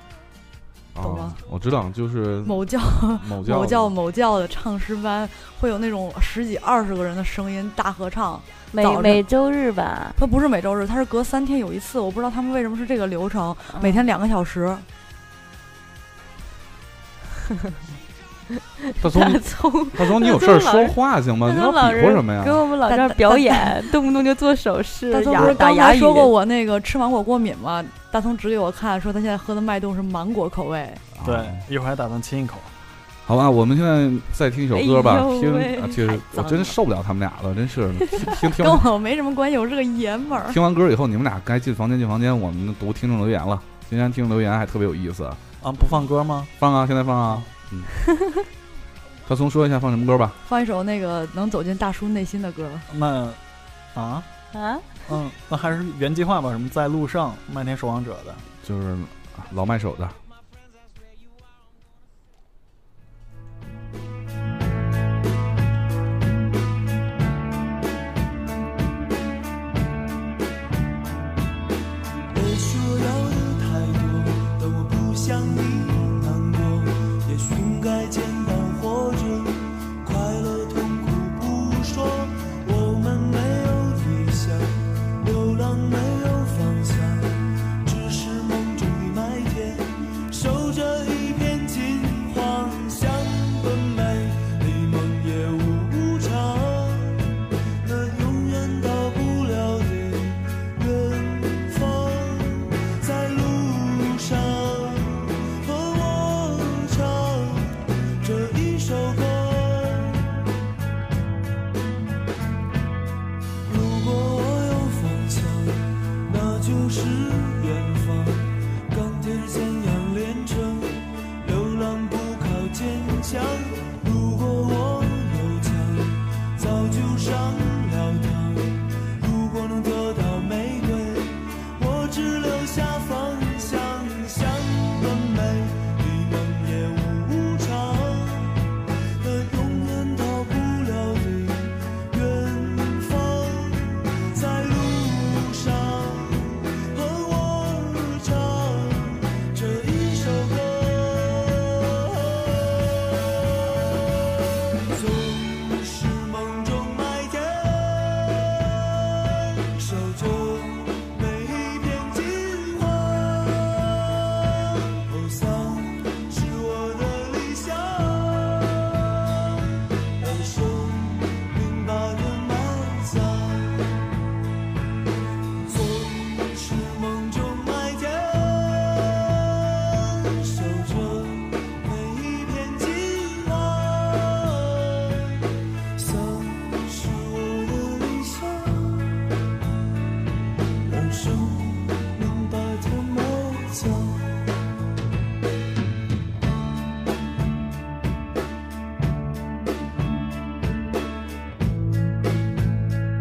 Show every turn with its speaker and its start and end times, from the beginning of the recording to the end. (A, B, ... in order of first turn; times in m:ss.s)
0:00.9-0:04.0 A
0:01.0-0:01.4 B
0:02.4-0:09.2 B
0:08.7-0:10.2 C
0:10.2-0:14.9 B
0:13.8-0:14.0 C
0:18.8-0:26.3 C
0:19.0-0:22.6 A
0:22.9-0:23.8 B
0:25.1-0:31.1 B
0:31.2-0:31.6 A
0:31.2-0:32.7 D
0:33.3-0:38.9 A
0:34.7-0:36.6 C
0:38.4-0:40.6 B
0:40.4-0:45.4 A
0:45.6-0:46.5 D
0:46.6-0:47.9 A
0:49.3-0:50.4 A
0:50.5-0:52.9 B
0:52.9-0:53.4 D
0:53.9-0:54.3 D
0:54.5-0:54.9 C
0:55.1-0:58.4 D
0:58.6-1:00.2 A
1:12.3-1:50.4 E
1:53.6-2:34.2 E
2:34.8-2:49.6 E
2:50.2-2:54.0 E
2:55.6-3:09.2 E
3:10.8-3:14.5 E